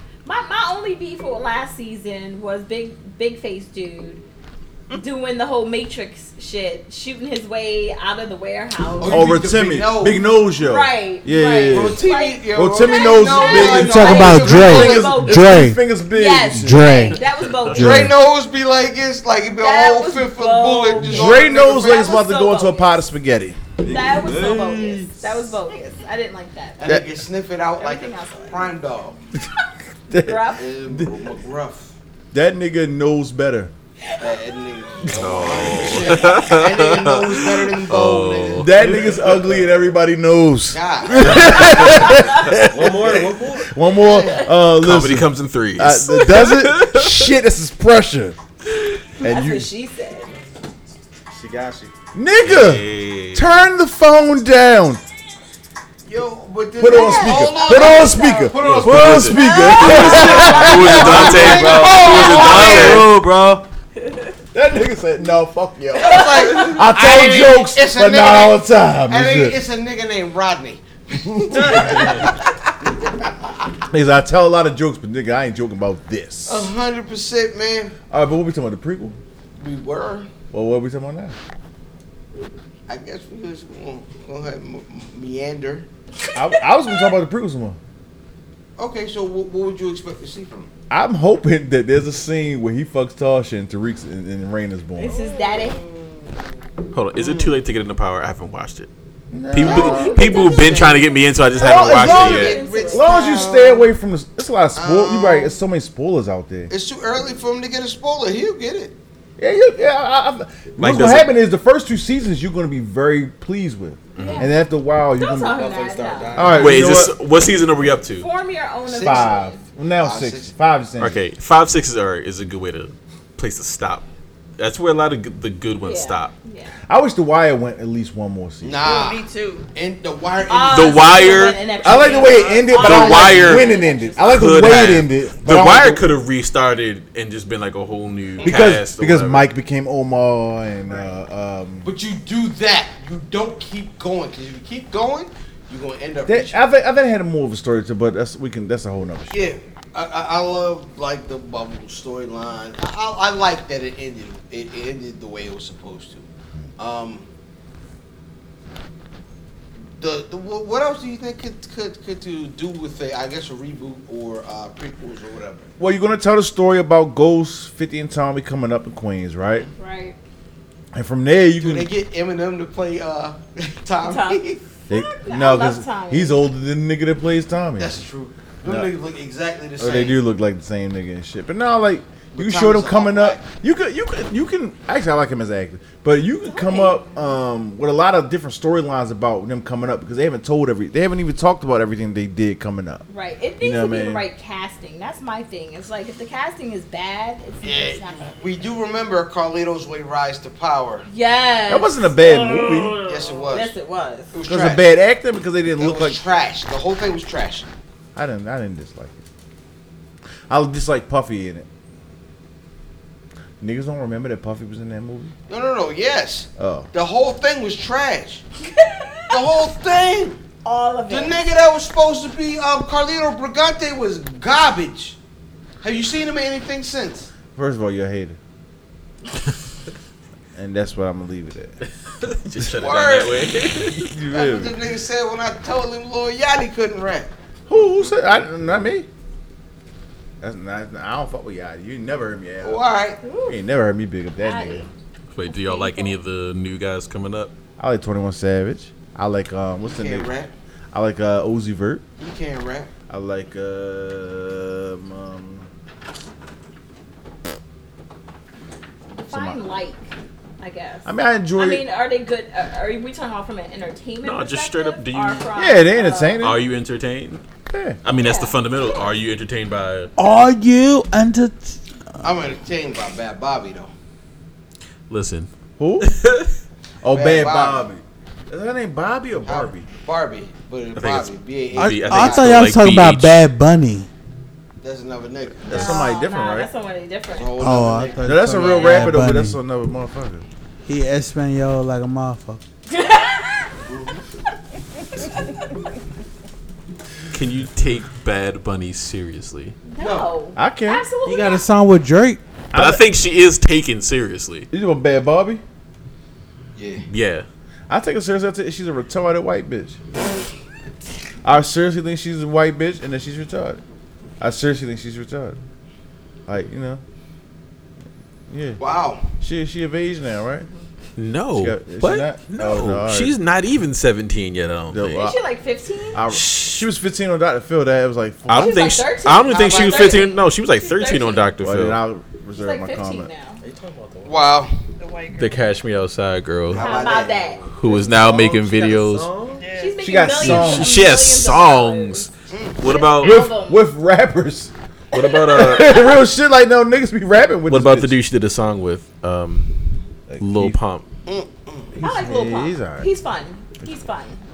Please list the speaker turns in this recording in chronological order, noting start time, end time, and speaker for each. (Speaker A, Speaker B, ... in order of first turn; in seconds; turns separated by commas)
Speaker A: 0.3-4.2, Speaker A: 4.9-9.3, Speaker B: 9.0-10.3, Speaker C: 9.1-16.9, Speaker A: 10.6-15.5, Speaker B: 11.7-15.2, Speaker D: 13.8-15.8, Speaker A: 16.1-18.1, Speaker D: 16.5-17.2, Speaker D: 17.7-18.1, Speaker B: 17.7-22.2, Speaker A: 19.6-23.0, Speaker C: 21.0-24.3, Speaker E: 23.8-25.2, Speaker A: 23.8-26.8, Speaker B: 26.8-29.2, Speaker A: 27.8-28.7, Speaker C: 30.1-31.1, Speaker A: 30.1-30.6, Speaker B: 30.6-31.9, Speaker C: 32.3-33.7, Speaker B: 34.2-39.1, Speaker F: 35.1-39.0, Speaker C: 35.2-36.0, Speaker C: 38.6-48.4, Speaker E: 38.9-39.7, Speaker B: 40.7-42.2, Speaker E: 42.6-43.7, Speaker B: 44.0-44.5, Speaker A: 44.0-44.5, Speaker F: 44.8-47.3, Speaker C: 49.2-49.7, Speaker A: 49.2-50.3, Speaker E: 51.3-51.9, Speaker C: 52.1-55.0, Speaker F: 52.4-53.5, Speaker B: 56.1-63.1, Speaker C: 56.8-61.7, Speaker A: 56.9-58.5, Speaker E: 58.5-59.4, Speaker F: 58.6-63.1, Speaker A: 59.4-61.9, Speaker E: 60.1-63.7, Speaker C: 62.5-63.0, Speaker C: 64.5-69.6, Speaker B: 66.0-72.5, Speaker A: 66.2-66.5, Speaker C: 71.3-72.1, Speaker C: 73.9-76.7, Speaker B: 76.5-78.0, Speaker C: 78.1-79.2, Speaker B: 79.6-80.3, Speaker C: 80.5-81.4, Speaker B: 82.9-85.9, Speaker C: 86.3-87.8, Speaker B: 88.8-90.7, Speaker C: 90.9-95.2, Speaker A: 95.0-95.8, Speaker F: 96.9-98.9, Speaker B: 97.2-97.5, Speaker C: 99.3-100.6, Speaker F: 99.5-102.6, Speaker B: 99.7-101.0, Speaker A: 99.7-101.0, Speaker A: 101.6-103.7, Speaker C: 101.6-106.7, Speaker B: 101.6-103.9, Speaker B: 104.8-105.6, Speaker B: 106.7-109.0, Speaker C: 109.4-115.7, Speaker F: 110.8-111.3, Speaker F: 114.2-114.5, Speaker A: 114.2-114.5, Speaker A: 115.2-116.5, Speaker E: 115.4-117.0, Speaker C: 116.3-117.2, Speaker F: 116.5-118.3, Speaker A: 118.2-119.6, Speaker B: 118.9-119.5, Speaker C: 119.0-121.2, Speaker B: 120.0-120.5, Speaker F: 121.0-124.1, Speaker F: 124.6-126.3, Speaker A: 125.8-126.7, Speaker C: 126.9-128.9, Speaker B: 128.6-131.5, Speaker A: 130.5-134.6, Speaker F: 130.7-131.6, Speaker C: 131.8-136.1, Speaker B: 132.0-132.2, Speaker F: 132.7-133.7, Speaker F: 134.3-139.5, Speaker C: 138.4-141.9, Speaker B: 141.8-146.6, Speaker C: 146.3-149.6, Speaker B: 149.3-156.3, Speaker B: 156.8-157.3, Speaker B: 160.0-165.7, Speaker C: 165.8-169.7, Speaker A: 169.8-170.2, Speaker C: 170.9-171.9, Speaker B: 171.6-174.6, Speaker A: 174.0-176.4, Speaker C: 174.9-178.0, Speaker B: 177.8-180.2, Speaker C: 178.6-178.9, Speaker C: 179.8-193.1, Speaker B: 182.3-183.4, Speaker A: 186.4-187.1, Speaker A: 193.1-198.4, Speaker C: 193.6-194.3, Speaker B: 197.6-201.1, Speaker A: 201.1-202.9, Speaker C: 201.7-203.0, Speaker B: 203.0-203.8, Speaker A: 203.5-204.3, Speaker B: 204.3-204.8, Speaker C: 204.4-206.2, Speaker B: 205.8-207.7, Speaker C: 208.2-209.2, Speaker C: 210.5-211.7, Speaker C: 213.6-215.3, Speaker B: 215.5-218.4, Speaker C: 216.6-216.9, Speaker A: 218.7-219.3, Speaker B: 219.3-220.4, Speaker A: 220.6-221.5, Speaker B: 221.1-225.2, Speaker B: 225.8-227.3, Speaker C: 227.6-228.4, Speaker C: 230.6-231.8, Speaker F: 232.1-234.1, Speaker B: 232.8-233.5, Speaker C: 233.8-234.7, Speaker B: 234.3-237.3, Speaker C: 237.7-239.1, Speaker C: 240.4-242.8, Speaker B: 242.6-243.2, Speaker A: 243.2-243.6, Speaker C: 243.5-244.9, Speaker A: 244.4-244.9, Speaker F: 245.3-247.5, Speaker A: 245.4-246.2, Speaker C: 247.8-250.3, Speaker B: 249.8-250.5, Speaker C: 250.9-252.0, Speaker B: 252.2-252.9, Speaker C: 253.1-255.7, Speaker A: 259.1-266.5, Speaker C: 259.3-259.7, Speaker C: 261.1-261.8, Speaker F: 264.2-265.5, Speaker C: 265.6-266.6, Speaker F: 266.4-267.4, Speaker C: 267.7-268.0, Speaker F: 268.0-270.1, Speaker A: 268.1-268.6, Speaker D: 270.2-272.2, Speaker B: 272.2-273.9, Speaker F: 275.1-275.5, Speaker C: 275.8-276.1, Speaker F: 276.0-276.5, Speaker C: 277.0-279.9, Speaker B: 277.1-277.9, Speaker B: 279.4-282.7, Speaker F: 280.9-283.4, Speaker D: 281.8-284.1, Speaker B: 284.8-286.0, Speaker C: 285.6-286.7, Speaker A: 285.7-287.9, Speaker B: 287.3-288.4, Speaker D: 287.6-289.6, Speaker C: 288.2-290.4, Speaker A: 288.5-289.1, Speaker D: 290.9-292.6, Speaker A: 292.9-293.8, Speaker B: 293.9-294.2, Speaker A: 295.1-295.7, Speaker F: 297.3-299.8, Speaker A: 299.9-301.6, Speaker B: 300.0-300.3, Speaker C: 300.6-301.1, Speaker D: 301.2-302.4, Speaker C: 302.7-303.1, Speaker F: 302.7-304.7, Speaker C: 304.7-305.6, Speaker B: 306.8-307.1, Speaker F: 307.1-307.5, Speaker C: 307.9-310.0, Speaker C: 311.4-313.8, Speaker C: 314.4-315.6, Speaker C: 316.5-317.0, Speaker C: 318.5-318.8, Speaker B: 318.8-319.2, Speaker C: 319.4-320.7, Speaker F: 321.2-325.3, Speaker C: 321.6-323.4, Speaker C: 324.9-325.4, Speaker A: 325.1-326.2, Speaker C: 326.1-328.9, Speaker F: 326.3-326.8, Speaker F: 328.5-332.0, Speaker A: 328.5-331.5, Speaker B: 329.5-330.3, Speaker C: 331.6-333.3, Speaker A: 332.6-333.6, Speaker E: 333.6-334.6, Speaker B: 334.2-334.7, Speaker F: 335.3-336.9, Speaker B: 336.7-338.0, Speaker A: 336.8-337.6, Speaker F: 337.8-339.3, Speaker E: 337.9-339.8, Speaker A: 339.7-342.3, Speaker C: 340.0-341.0, Speaker F: 340.4-343.5, Speaker B: 342.5-342.8, Speaker A: 342.8-343.8, Speaker C: 343.2-344.7, Speaker F: 345.1-346.1, Speaker C: 345.5-348.2, Speaker F: 347.7-349.7, Speaker C: 350.3-350.8, Speaker F: 350.4-351.1, Speaker B: 351.3-351.9, Speaker C: 351.9-353.1, Speaker A: 352.0-354.4